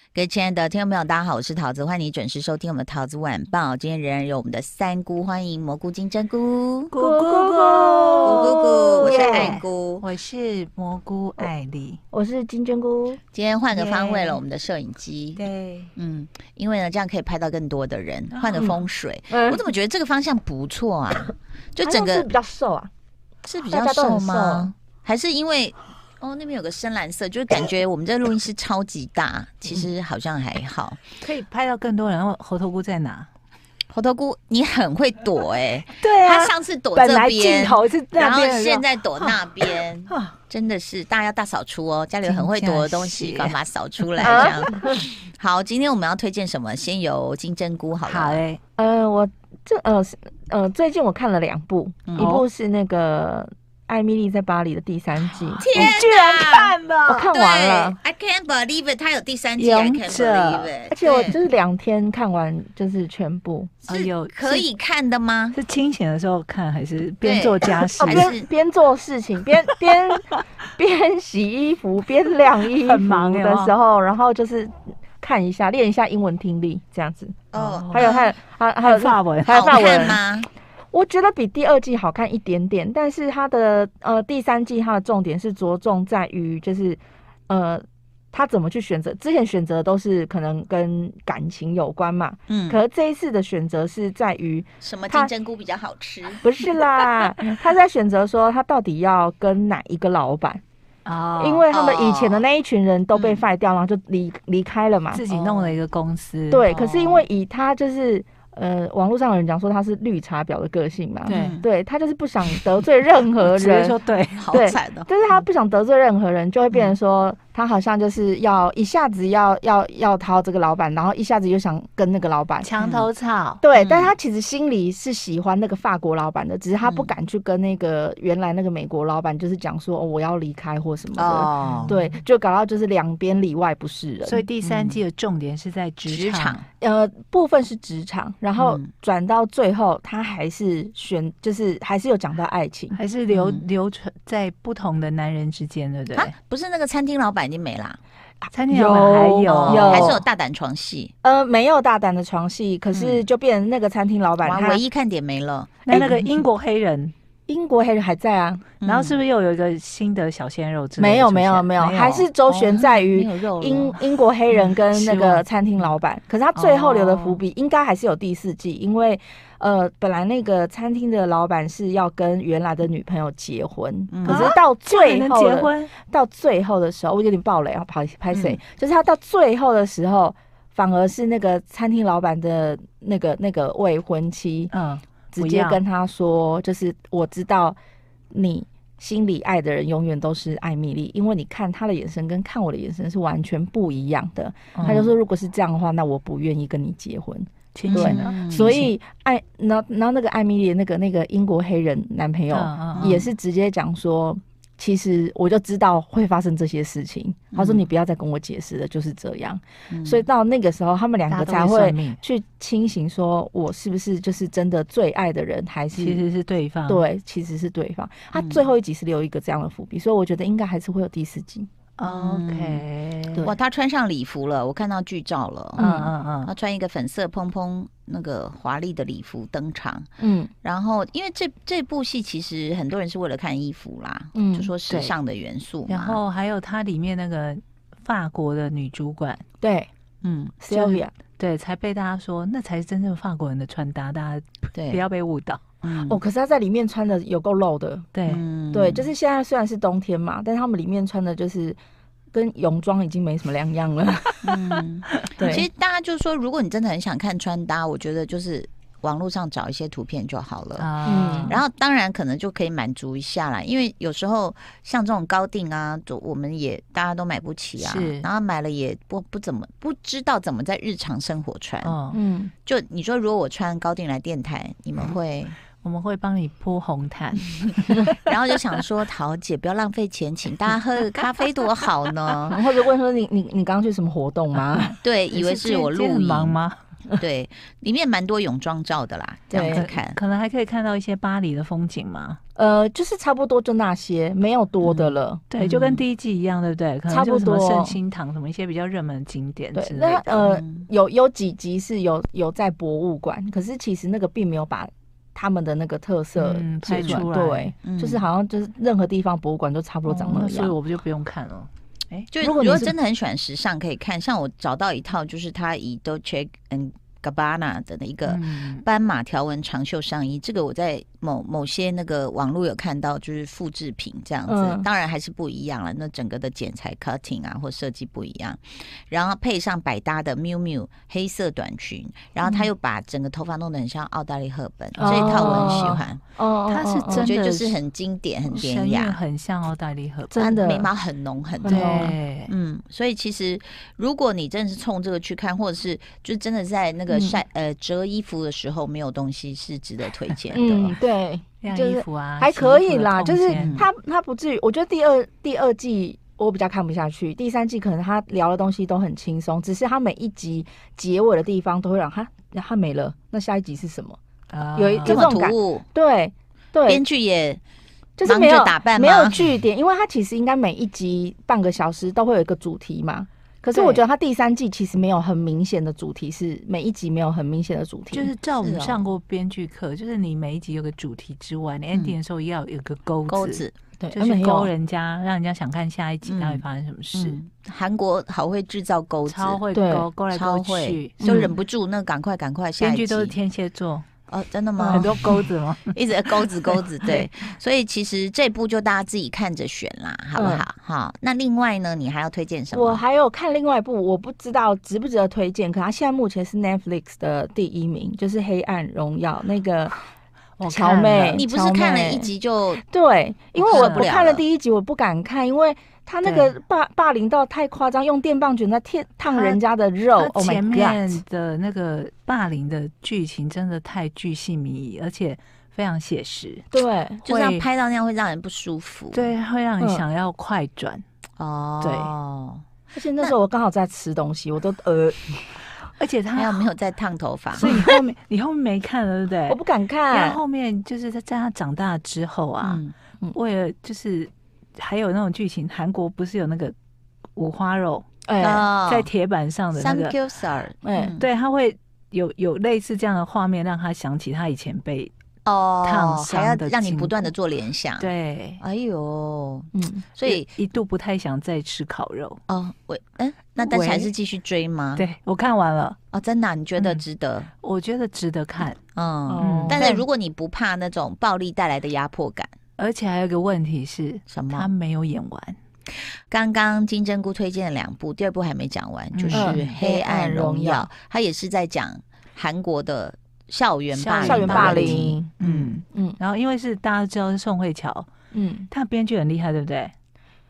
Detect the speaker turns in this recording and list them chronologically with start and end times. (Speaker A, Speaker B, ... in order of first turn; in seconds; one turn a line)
Speaker A: 0.1-6.9
Speaker B: 6.9-12.0
Speaker C: 7.0-9.6
Speaker A: 8.2-10.1
Speaker C: 12.1-13.2
Speaker A: 13.3-15.4
Speaker B: 13.7-14.4
Speaker B: 15.4-15.9
Speaker A: 16.0-22.3
Speaker B: 18.3-18.8
Speaker C: 19.3-19.6
Speaker C: 21.8-22.9
Speaker A: 23.4-31.1
Speaker C: 23.7-24.7
Speaker B: 31.2-33.3
Speaker A: 33.9-48.4
Speaker B: 35.9-39.4
Speaker B: 40.1-40.4
Speaker B: 42.2-44.7
Speaker C: 44.2-45.0
Speaker B: 48.0-48.6
Speaker C: 48.8-55.9
Speaker A: 52.1-52.4
Speaker B: 52.2-52.5
Speaker B: 55.4-57.3
Speaker A: 55.6-56.8
Speaker C: 57.1-58.0
Speaker A: 57.3-61.4
Speaker B: 59.6-60.7
Speaker C: 60.9-63.7
Speaker B: 63.9-64.7
Speaker A: 63.9-65.6
Speaker B: 65.5-68.3
Speaker A: 67.2-68.5
Speaker C: 68.0-77.4
Speaker B: 72.7-73.8
Speaker A: 77.5-78.3
Speaker B: 77.5-78.2
Speaker C: 77.9-80.2
Speaker B: 78.8-80.1
Speaker A: 79.5-80.5
Speaker C: 80.9-95.3
Speaker A: 92.5-92.8
Speaker A: 94.8-96.4
Speaker C: 96.4-100.6
Speaker B: 101.0-101.7
Speaker C: 101.4-105.2
Speaker A: 101.7-102.5
Speaker A: 103.1-103.5
Speaker B: 105.1-106.7
Speaker A: 105.3-105.8
Speaker C: 106.5-114.0
Speaker A: 106.7-107.3
Speaker B: 111.3-111.6
Speaker A: 111.3-111.7
Speaker B: 113.4-114.5
Speaker A: 114.4-115.1
Speaker C: 114.5-122.7
Speaker B: 122.6-123.6
Speaker A: 122.8-123.1
Speaker C: 123.6-134.5
Speaker A: 123.7-124.2
Speaker A: 126.8-127.2
Speaker A: 131.2-132.0
Speaker B: 131.7-132.1
Speaker B: 134.2-136.6
Speaker A: 134.6-135.0
Speaker A: 136.1-136.7
Speaker C: 136.8-143.0
Speaker A: 138.6-138.9
Speaker B: 142.9-146.3
Speaker A: 143.3-143.7
Speaker A: 146.2-148.0
Speaker C: 148.4-150.2
Speaker B: 148.5-150.2
Speaker A: 149.5-151.1
Speaker C: 151.2-154.8
Speaker A: 152.9-153.2
Speaker A: 154.4-155.9
Speaker B: 155.9-157.1
Speaker C: 155.9-156.3
Speaker C: 157.5-158.7
Speaker A: 158.8-159.2
Speaker B: 158.8-162.3
Speaker C: 161.0-184.7
Speaker A: 162.5-164.0
Speaker B: 164.5-165.4
Speaker B: 166.6-167.4
Speaker A: 174.1-174.6
Speaker B: 174.2-175.9
Speaker A: 178.3-178.6
Speaker B: 184.7-185.8
Speaker C: 185.3-187.8
Speaker C: 188.3-216.2
Speaker B: 194.8-195.1
Speaker B: 197.8-198.9
Speaker A: 197.9-198.8
Speaker B: 202.5-203.2
Speaker A: 202.9-203.3
Speaker A: 207.5-207.8
Speaker A: 209.9-210.3
Speaker B: 211.3-212.2
Speaker B: 215.9-217.1
Speaker C: 216.9-221.7
Speaker A: 218.3-218.7
Speaker B: 222.0-223.5
Speaker A: 222.1-222.8
Speaker A: 223.4-225.9
Speaker B: 225.8-226.5
Speaker C: 225.8-226.1
Speaker A: 226.5-230.1
Speaker C: 230.2-230.5
Speaker A: 230.6-236.2
Speaker C: 234.3-234.7
Speaker B: 234.9-235.2
Speaker B: 235.9-239.4
Speaker C: 239.6-239.9
Speaker A: 240.2-240.6
Speaker C: 240.6-241.1
Speaker B: 240.7-245.8
Speaker A: 244.8-245.0
Speaker A: 245.8-246.2
Speaker C: 246.1-248.1
Speaker B: 248.1-248.4
Speaker A: 248.3-249.1
Speaker C: 248.7-251.8
Speaker C: 252.3-254.5
Speaker A: 254.4-260.9
Speaker C: 255.4-255.7
Speaker B: 260.8-261.6
Speaker C: 261.1-261.6
Speaker A: 261.5-271.9
Speaker B: 267.8-268.3
Speaker B: 271.8-272.2
Speaker C: 272.1-272.5
Speaker A: 272.7-275.6
Speaker B: 275.8-278.2
Speaker A: 278.2-282.6
Speaker C: 282.5-285.0
Speaker A: 285.0-286.6
Speaker B: 285.3-286.8
Speaker A: 287.2-290.2
Speaker C: 289.5-289.9
Speaker B: 289.6-292.4
Speaker C: 292.6-295.4
Speaker A: 294.8-296.0
Speaker B: 295.5-300.2
Speaker C: 297.1-298.0
Speaker C: 299.8-310.8
Speaker A: 300.1-300.9
Speaker B: 306.4-307.7
Speaker A: 307.0-307.3
Speaker A: 307.8-308.2
Speaker B: 310.1-312.9
Speaker A: 312.3-336.2
Speaker C: 312.4-312.9
Speaker B: 318.3-318.9
Speaker C: 324.5-324.9
Speaker B: 335.0-336.0
Speaker C: 335.0-337.3
Speaker B: 336.7-337.8
Speaker A: 337.1-339.2
Speaker B: 338.5-340.6
Speaker C: 340.3-340.9
Speaker A: 340.4-351.0
Speaker C: 341.6-342.1
Speaker B: 341.6-342.5
Speaker C: 347.1-347.4
Speaker C: 350.5-364.2
Speaker B: 351.6-353.9
Speaker A: 353.6-353.9
Speaker B: 364.5-365.3
Speaker C: 364.7-367.0
Speaker A: 365.0-365.9
Speaker A: 366.9-367.6
Speaker C: 368.2-378.3
Speaker A: 368.2-369.4
Speaker B: 373.7-374.0
Speaker B: 378.1-387.4
Speaker A: 378.6-379.1
Speaker A: 383.3-383.8
Speaker C: 384.0-384.7
Speaker A: 386.2-386.6
Speaker A: 387.1-389.6
Speaker B: 389.3-391.5
Speaker C: 389.7-390.1
Speaker A: 390.3-393.4
Speaker C: 391.2-391.5
Speaker B: 392.8-394.1
Speaker A: 394.3-395.3
Speaker C: 394.8-395.2
Speaker B: 394.9-396.8
Speaker A: 395.9-403.0
Speaker C: 400.4-400.6
Speaker C: 402.7-410.0
Speaker B: 410.6-411.4
Speaker C: 410.7-421.2
Speaker A: 411.3-412.8
Speaker A: 413.6-414.4
Speaker B: 413.7-414.1
Speaker B: 416.2-416.5
Speaker B: 419.3-419.6
Speaker B: 420.2-426.7
Speaker C: 426.7-427.2
Speaker B: 427.2-427.7
Speaker A: 427.3-429.3
Speaker B: 429.1-431.0
Speaker A: 431.4-432.6
Speaker B: 431.8-432.1
Speaker C: 432.9-435.6
Speaker B: 436.0-436.7
Speaker A: 436.4-437.7
Speaker B: 437.5-442.8
Speaker C: 437.6-437.9
Speaker C: 439.5-440.4
Speaker A: 442.6-442.9
Speaker B: 443.3-446.8
Speaker B: 447.4-448.1
Speaker C: 448.3-448.7
Speaker A: 448.4-449.1
Speaker B: 448.9-450.2
Speaker A: 449.8-451.3
Speaker C: 450.8-451.2
Speaker B: 451.2-455.1
Speaker A: 455.4-460.5
Speaker B: 455.8-457.1
Speaker B: 458.0-458.6
Speaker C: 459.7-460.1
Speaker B: 460.3-462.4
Speaker A: 462.5-465.1
Speaker B: 463.6-464.1
Speaker B: 465.0-466.0
Speaker A: 466.1-467.5
Speaker B: 466.8-467.0
Speaker B: 467.6-468.8
Speaker A: 468.9-472.5
Speaker C: 469.3-470.0
Speaker B: 469.4-469.9
Speaker B: 472.8-475.6
Speaker A: 474.3-474.7
Speaker A: 476.3-485.8
Speaker B: 479.1-479.7
Speaker C: 479.3-480.9
Speaker B: 483.9-488.1
Speaker C: 484.2-485.3
Speaker C: 485.9-486.2
Speaker C: 488.3-488.7
Speaker B: 488.7-489.9